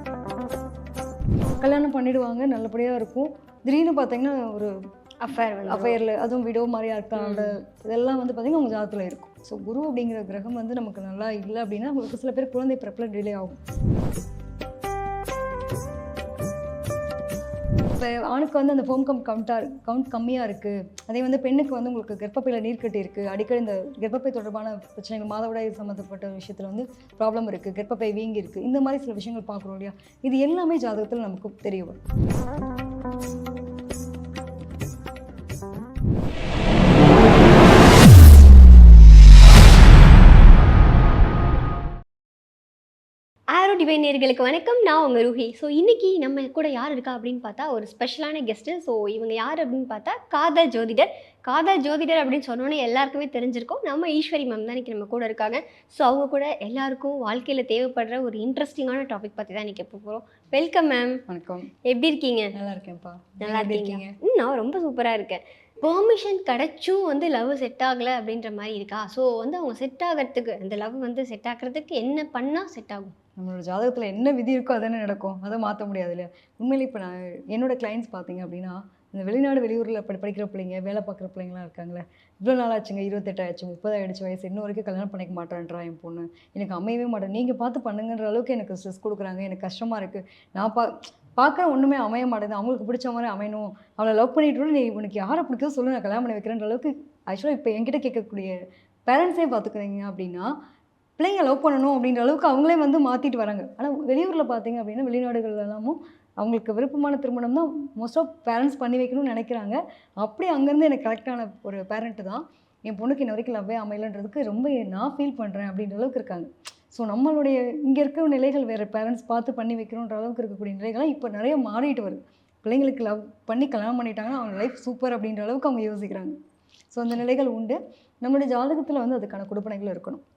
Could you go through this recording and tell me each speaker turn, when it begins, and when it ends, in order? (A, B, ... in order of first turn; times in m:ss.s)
0:01.6-0:04.7 A
0:05.2-0:06.0 B
0:05.7-0:13.6 A
0:07.2-0:07.6 B
0:18.0-0:32.0 A
0:43.5-1:01.2 B
1:01.3-1:01.7 A
1:01.8-1:02.5 B
1:02.5-1:04.2 A
1:03.4-1:13.1 B
1:13.4-1:38.5 A
1:39.1-1:40.5 A
1:41.2-2:06.4 A
2:06.9-2:10.2 A